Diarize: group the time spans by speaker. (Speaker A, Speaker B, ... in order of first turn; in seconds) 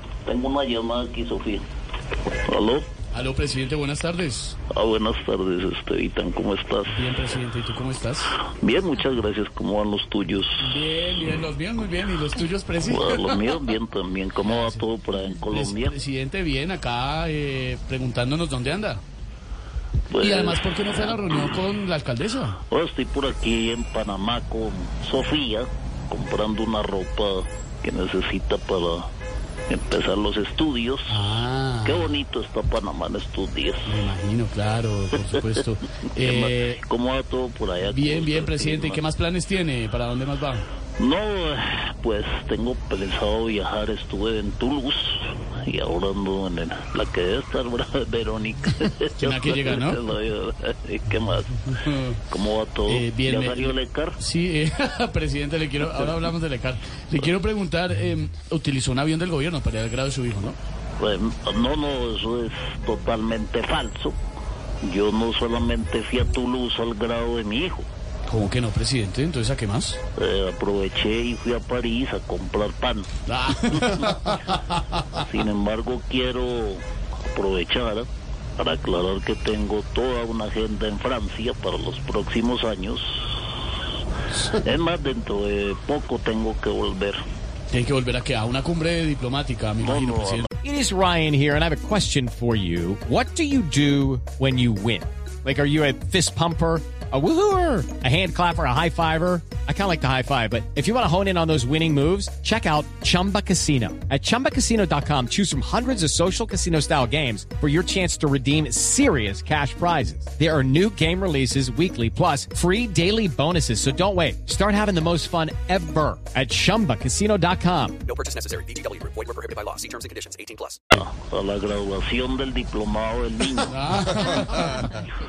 Speaker A: 0.3-1.6, 2.5-2.9, 4.7-7.1, 8.5-10.6, 12.8-16.0, 20.1-21.2, 22.7-29.1, 29.7-31.2, 31.9-33.9, 36.1-39.0, 41.0-51.8, 52.3-54.2, 61.0-64.2, 64.8-67.9, 70.2-73.1, 75.1-83.5, 84.6-87.2, 89.8-90.5, 120.9-124.2
Speaker B: 3.1-4.6, 6.9-8.4, 10.6-13.6, 14.4-14.9, 15.5-19.0, 20.1-22.6, 31.1-32.1, 33.9-36.8, 37.8-40.7, 49.2-50.0, 51.7-52.2, 52.9-60.6, 68.3-70.0, 73.3-74.8, 87.7-90.5, 123.7-124.8
Speaker C: 90.6-118.1
Speaker D: 118.1-120.8